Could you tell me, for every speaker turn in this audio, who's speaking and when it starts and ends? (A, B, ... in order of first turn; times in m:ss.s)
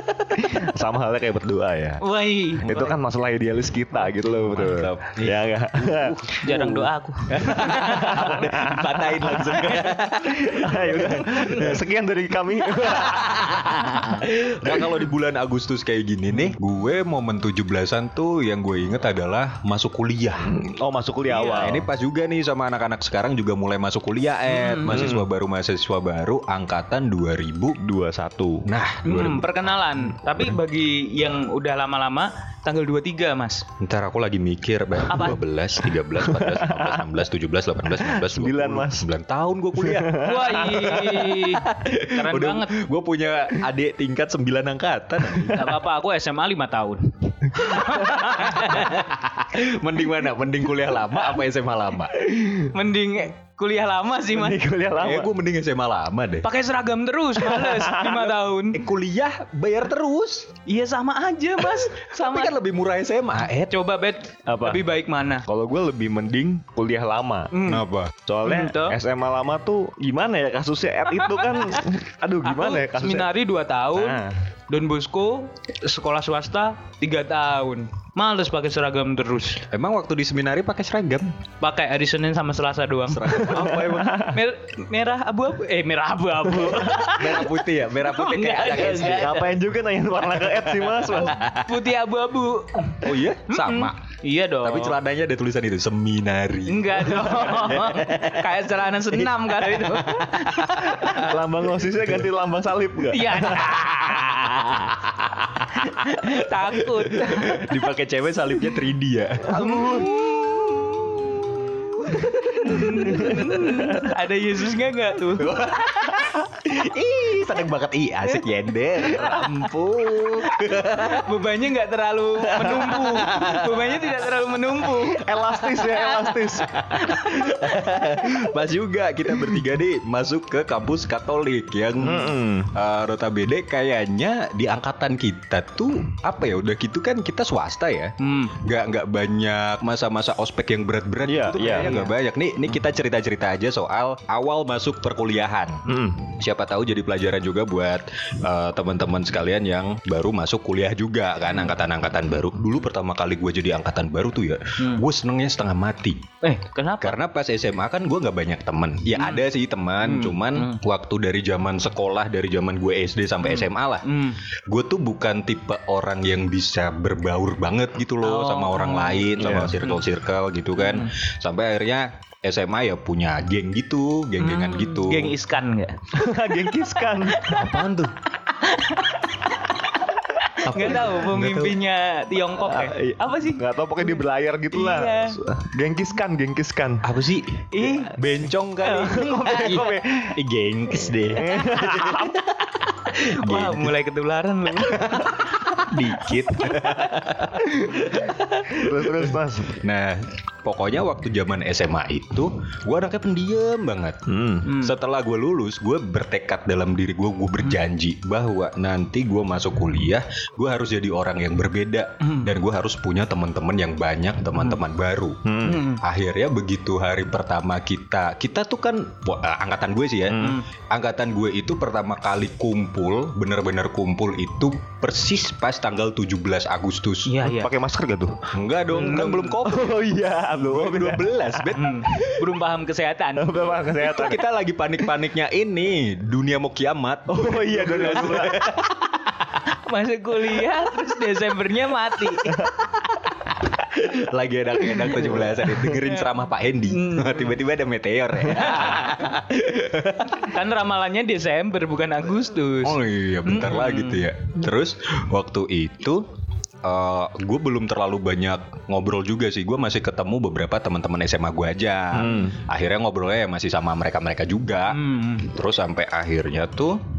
0:00.3-0:02.0 A
0:02.0-0:02.9 B
0:02.6-0:09.6 A
0:04.4-0:11.8 C
0:06.4-0:08.4 B
0:09.5-0:09.9 B
0:10.2-0:13.4 A
0:12.9-0:20.5 C
0:13.6-0:14.1 B
0:20.5-0:21.8 A
0:21.3-0:21.8 B
0:21.6-0:27.8 C
0:24.5-0:25.3 B
0:27.8-0:28.7 A
0:28.6-0:29.6 C
0:29.0-0:33.6 B
0:33.8-0:45.8 C
0:35.1-0:35.4 B
0:36.2-0:37.0 A
0:37.9-0:39.1 A
0:39.8-0:41.1 A
0:40.2-0:42.7 B
0:45.4-0:49.1 B
0:47.7-0:52.2 C
0:52.3-0:52.7 A
0:52.5-0:54.6 B
0:54.3-0:55.3 A
0:55.0-0:56.5 C
0:56.4-0:58.8 B
0:57.4-0:58.2 A
0:58.1-1:00.6 C
1:00.6-1:02.6 B
1:01.6-1:03.7 C
1:03.7-1:05.4 B
1:04.4-1:04.8 A
1:05.5-1:07.6 A
1:07.5-1:07.9 B
1:07.6-1:08.1 C
1:08.2-1:13.3 A
1:08.4-1:09.0 B
1:11.1-1:11.8 B
1:12.4-1:19.6 B
1:13.9-1:14.3 A
1:19.7-1:21.2 C
1:21.6-1:29.6 B
1:23.1-1:24.3 C
1:23.3-1:24.4 A
1:26.6-1:27.0 A
1:27.1-1:29.4 C
1:28.6-1:31.4 A
1:30.4-1:31.7 C
1:31.4-1:35.0 B
1:33.0-1:34.0 C
1:34.6-1:38.5 C
1:36.7-1:41.2 B
1:39.1-1:41.3 C
1:40.8-1:43.8 A
1:43.1-1:45.1 B
1:45.6-1:46.3 C
1:46.0-1:47.7 B
1:47.1-1:53.9 C
1:49.5-1:50.2 A
1:49.5-1:50.5 B
1:52.1-1:53.6 A
1:52.5-1:55.7 B
1:55.3-2:01.3 C
1:59.0-1:59.7 B
2:00.2-2:07.3 B
2:02.5-2:04.2 C
2:05.1-2:06.7 A
2:06.7-2:36.3 C
2:12.0-2:12.7 A
2:18.2-2:18.6 B
2:21.2-2:22.1 A
2:21.7-2:22.1 B
2:25.9-2:26.3 A
2:36.4-2:37.2 B
2:37.0-2:44.1 C
2:39.1-2:39.4 B
2:40.0-2:40.8 B
2:43.4-2:44.4 B
2:44.7-2:55.3 C
2:48.2-2:50.0 B
2:49.4-2:49.7 A
2:50.8-2:51.1 B
2:54.4-2:56.0 B
2:56.1-2:57.6 A
2:57.3-2:57.8 B
2:57.5-2:58.1 C
2:58.5-3:03.6 B
3:00.6-3:01.8 C
3:02.6-3:07.0 A
3:04.7-3:05.4 B
3:07.0-3:13.9 C
3:07.7-3:08.2 B
3:08.8-3:10.0 B
3:09.2-3:10.4 A
3:11.1-3:12.4 A
3:13.1-3:15.6 B
3:14.8-3:18.3 C
3:16.6-3:17.1 B
3:18.0-3:18.8 B
3:18.7-3:19.8 A
3:19.8-3:47.4 C
3:24.3-3:24.7 A
3:24.6-3:24.9 B
3:32.2-3:32.5 B
3:35.4-3:35.8 A
3:35.6-3:36.0 B
3:40.3-3:40.6 A
3:40.4-3:40.6 B
3:47.2-3:47.7 B
3:47.4-3:48.4 A
3:48.5-3:52.1 C
3:48.9-3:49.6 B
3:49.6-3:51.6 A
3:51.7-3:53.7 B
3:53.4-3:54.4 A
3:54.0-3:59.2 C
3:57.3-3:58.7 A
3:57.9-3:58.3 B
3:59.7-4:02.7 B
4:03.8-4:10.5 C
4:05.2-4:05.8 A
4:06.9-4:07.6 B
4:08.5-4:09.4 B
4:10.4-4:14.3 B
4:12.8-4:16.2 C
4:16.8-4:27.0 C
4:22.1-4:22.6 A
4:24.9-4:25.5 B